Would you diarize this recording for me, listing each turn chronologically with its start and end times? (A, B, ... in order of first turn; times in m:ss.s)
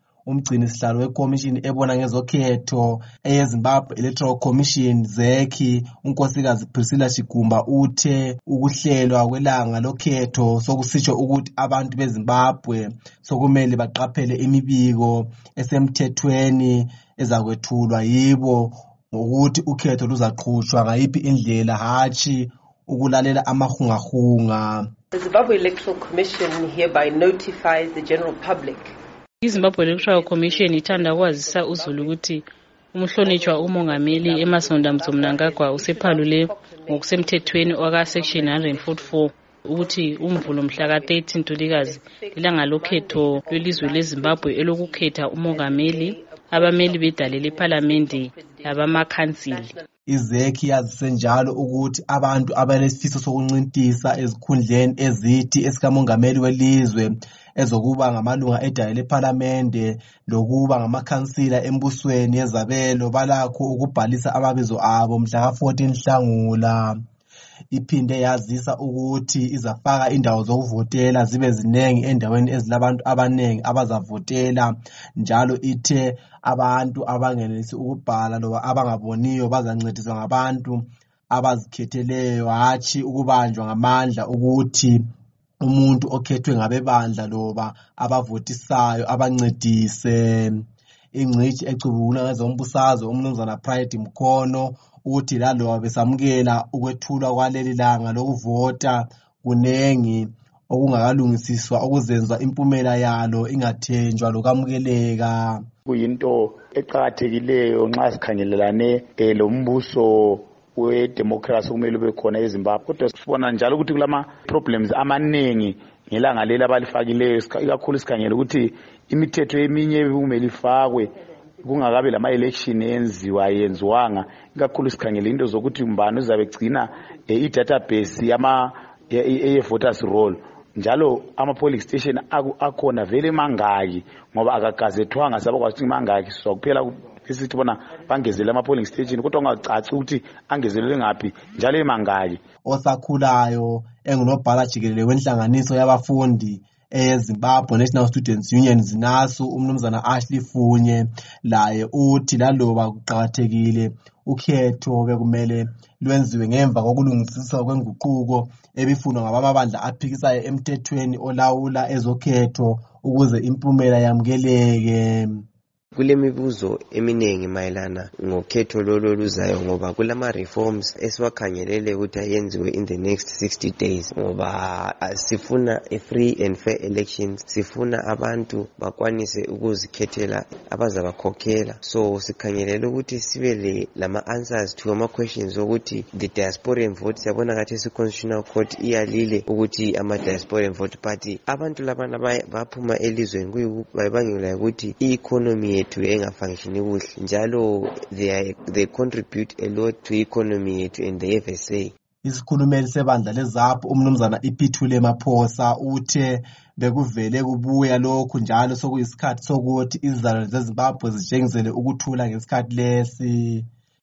0:00.3-0:24.9 A
0:25.1-0:29.0 B
0:29.4-0:49.7 C
0:29.6-0:32.2 B
0:33.2-0:39.2 B
0:39.8-0:49.9 B
0:50.1-1:07.0 A
1:07.7-1:25.0 A
1:25.6-1:45.6 A
1:45.9-2:22.4 D
2:22.6-2:45.4 A
2:45.9-3:21.9 E
3:22.2-3:33.7 A